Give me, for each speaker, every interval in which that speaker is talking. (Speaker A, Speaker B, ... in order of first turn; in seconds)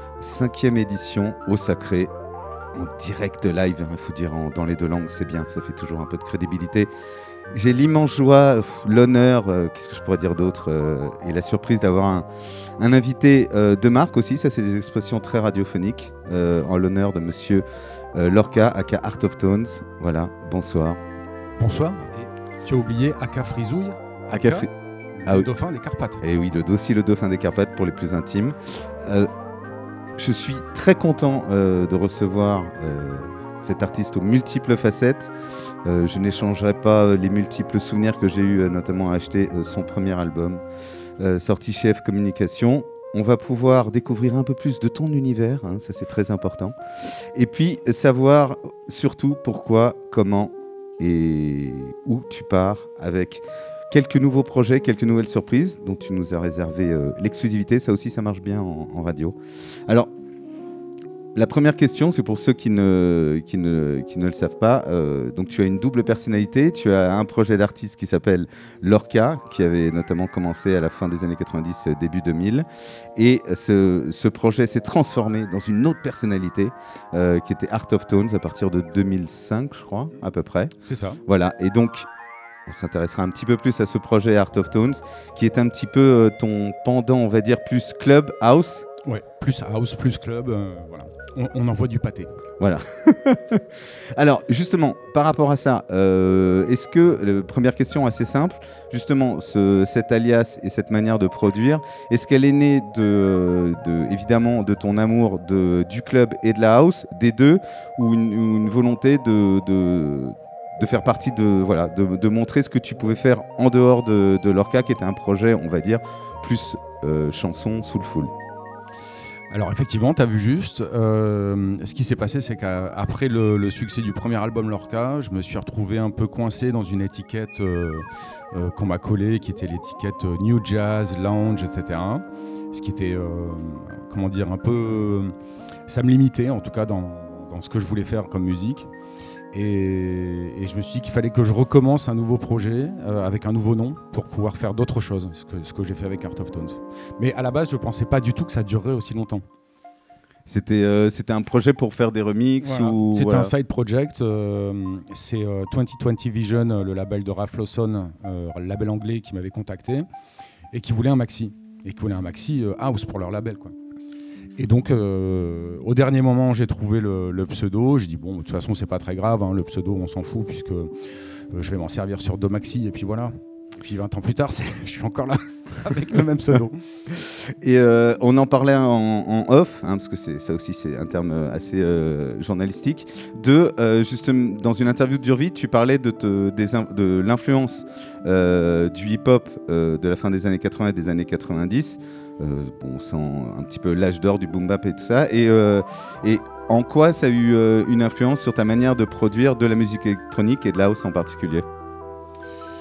Speaker A: 0.2-2.1, 2.7-6.9, 7.5-12.3, 12.8-21.0, 24.3-24.7, 26.2-29.3, 30.2-35.3, 35.8-40.6, 41.2-46.8, 47.3-60.1, 61.3-80.7, 81.2-82.1, 82.7-88.8, 92.6-118.3, 150.4-153.5, 177.2-201.7
Speaker B: 21.6-26.2, 80.8-81.2, 89.0-92.3, 119.5-135.3, 135.9-138.9, 139.5-149.4, 152.6-160.1, 160.7-163.7, 164.6-170.9, 171.5-176.8